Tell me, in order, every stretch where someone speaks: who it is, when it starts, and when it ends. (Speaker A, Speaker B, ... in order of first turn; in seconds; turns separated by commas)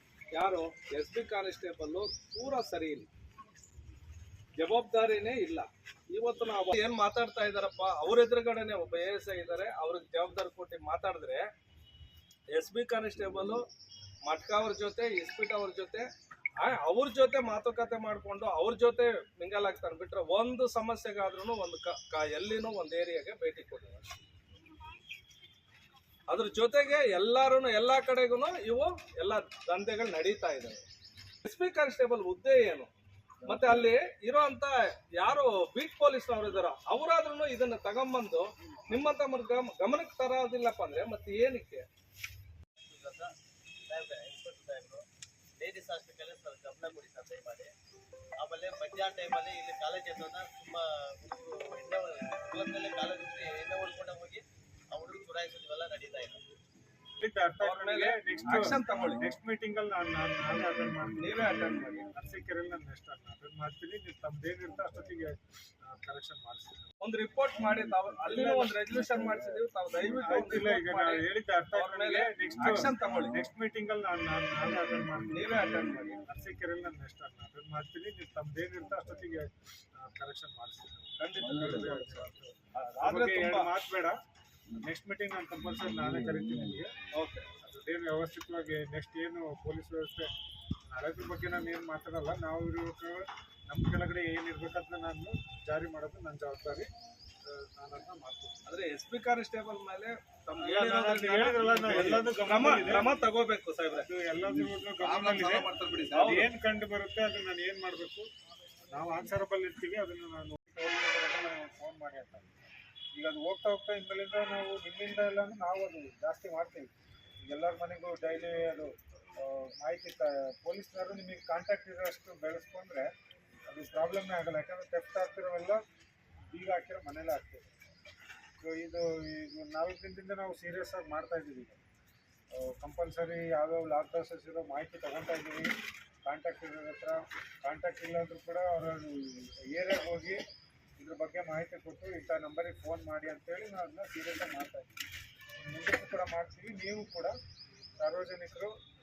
Speaker A: 0.3-3.1, Speaker A: 4.6-11.5, Speaker A: 12.5-13.6, Speaker A: 14.3-16.1, Speaker A: 16.6-24.1, Speaker A: 26.3-30.8, Speaker A: 31.4-32.9, Speaker A: 33.4-41.8, Speaker B: 42.8-43.3, Speaker B: 43.9-45.0, Speaker B: 45.6-47.7, Speaker B: 48.4-56.4, Speaker C: 57.2-61.3, Speaker A: 57.6-59.3, Speaker A: 61.1-62.1, Speaker C: 62.1-66.8, Speaker A: 67.0-73.4, Speaker C: 68.2-68.8, Speaker C: 70.0-75.4, Speaker A: 75.3-76.2, Speaker C: 76.2-84.2, Speaker A: 81.2-83.7, Speaker C: 84.7-86.9, Speaker A: 87.1-87.5, Speaker C: 87.6-90.3, Speaker C: 90.9-96.9, Speaker C: 97.5-98.6, Speaker A: 98.7-104.1, Speaker C: 100.6-103.2, Speaker C: 103.9-108.3, Speaker A: 105.6-106.5, Speaker C: 108.9-112.5, Speaker C: 113.2-116.9, Speaker C: 117.5-123.1, Speaker C: 123.7-125.8, Speaker C: 126.5-127.7, Speaker C: 128.6-131.8, Speaker C: 132.5-135.7, Speaker C: 136.2-140.4, Speaker C: 141.0-144.9, Speaker C: 145.6-147.3, Speaker C: 148.0-148.7